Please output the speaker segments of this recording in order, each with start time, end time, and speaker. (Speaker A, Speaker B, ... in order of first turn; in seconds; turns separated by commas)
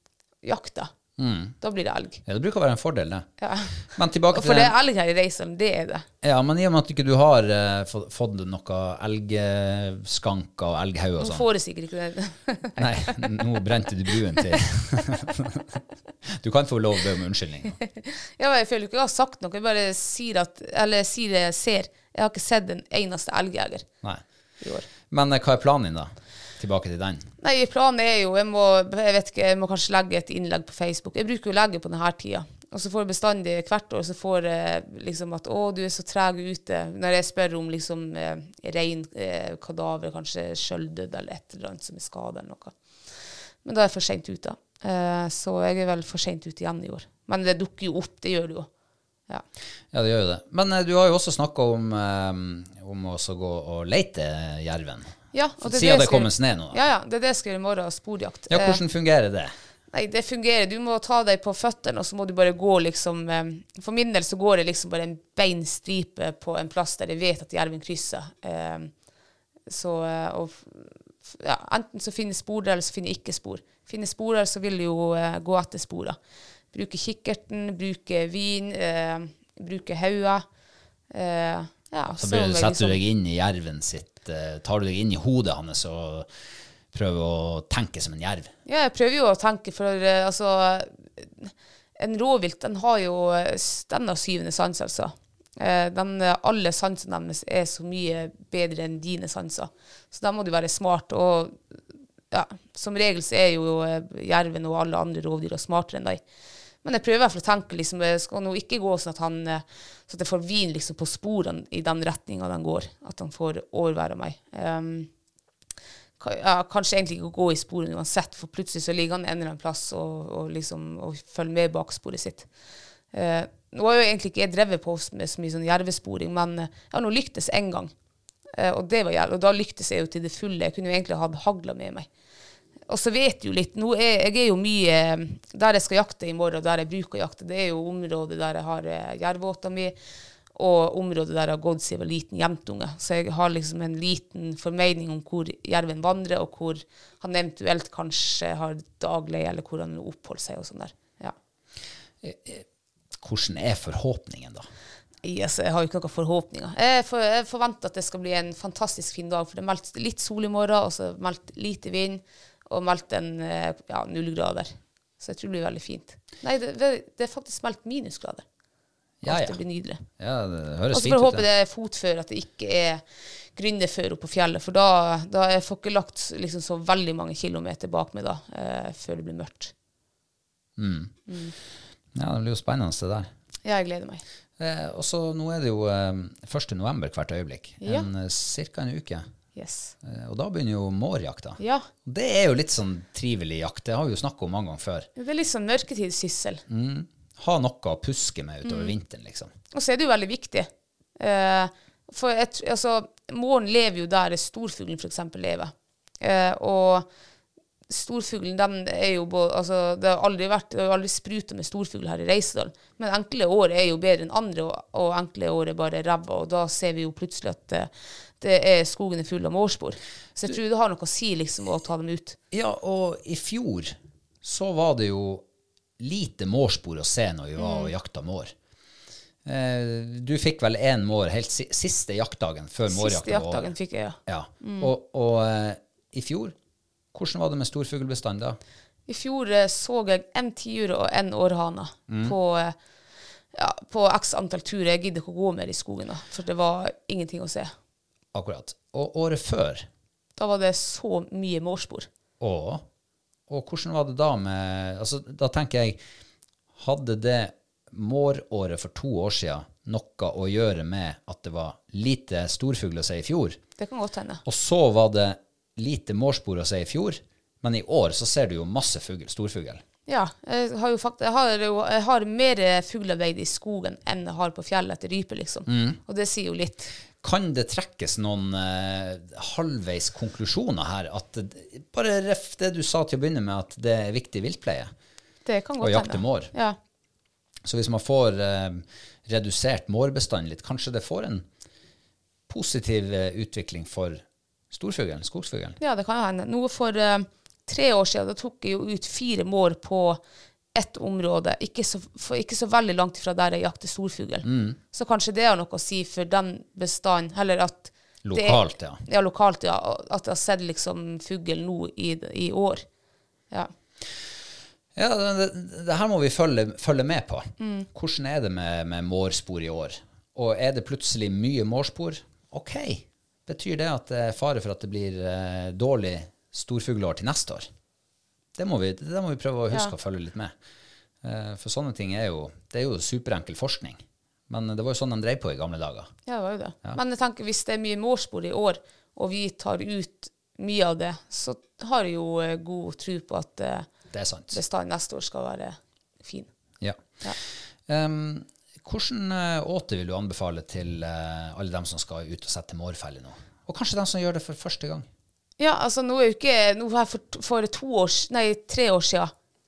Speaker A: 0.4-0.9, Speaker B: 1.2-1.6, Speaker A: 1.6-2.2, Speaker B: 2.2-3.3, Speaker A: 3.4-6.0, Speaker B: 3.8-4.7, Speaker B: 6.2-11.5, Speaker A: 11.2-13.4, Speaker B: 12.8-17.8, Speaker A: 18.0-23.9, Speaker A: 24.6-24.9, Speaker B: 25.0-27.3, Speaker A: 27.4-42.7, Speaker A: 43.6-48.7, Speaker B: 49.9-56.8, Speaker A: 55.3-58.8, Speaker B: 58.5-59.5, Speaker A: 59.9-68.9, Speaker A: 69.7-76.2, Speaker A: 76.7-80.4, Speaker A: 81.1-83.0, Speaker B: 82.1-86.3, Speaker B: 86.9-88.5, Speaker A: 88.7-101.6, Speaker A: 102.3-106.2, Speaker A: 106.8-115.1, Speaker A: 116.2-122.5, Speaker A: 123.1-127.9, Speaker A: 128.5-132.1, Speaker A: 132.9-139.9, Speaker A: 140.5-151.3, Speaker B: 152.2-152.6, Speaker B: 153.2-154.7, Speaker A: 155.2-168.4, Speaker B: 169.2-169.6, Speaker A: 169.2-170.0, Speaker B: 170.2-171.4, Speaker A: 170.9-173.0, Speaker A: 173.5-179.7, Speaker B: 180.8-181.2, Speaker A: 181.3-181.5, Speaker B: 182.1-183.3, Speaker A: 183.6-184.2, Speaker B: 184.6-189.3, Speaker A: 187.8-188.1, Speaker A: 189.5-189.9, Speaker B: 190.0-195.1, Speaker A: 191.6-191.9, Speaker A: 195.2-196.6, Speaker B: 196.7-199.5, Speaker A: 198.6-198.9, Speaker A: 199.7-207.1, Speaker A: 207.9-217.9, Speaker A: 218.4-222.4, Speaker B: 222.5-225.4, Speaker B: 226.0-228.5, Speaker A: 227.6-227.9, Speaker B: 229.4-233.7, Speaker A: 232.9-234.9, Speaker B: 234.2-236.5, Speaker B: 237.1-238.6, Speaker A: 239.1-242.8, Speaker B: 242.1-242.3, Speaker A: 243.5-247.7, Speaker B: 248.3-249.9, Speaker A: 250.4-252.1, Speaker B: 252.4-252.8, Speaker B: 253.5-256.0, Speaker B: 256.8-263.6, Speaker A: 263.8-264.4, Speaker B: 264.4-269.8, Speaker A: 270.1-276.9, Speaker B: 275.7-276.0, Speaker B: 277.2-284.9, Speaker A: 285.4-286.8, Speaker B: 285.8-286.5, Speaker B: 287.6-291.4, Speaker B: 292.5-295.8, Speaker A: 295.8-300.2, Speaker A: 300.7-312.8, Speaker B: 304.4-304.8, Speaker B: 308.2-309.0, Speaker B: 314.9-327.7, Speaker A: 317.6-317.9, Speaker B: 328.6-330.5, Speaker B: 331.2-336.1, Speaker A: 336.3-343.9, Speaker B: 344.1-344.6, Speaker A: 344.5-346.5, Speaker B: 347.9-355.1, Speaker A: 355.6-359.3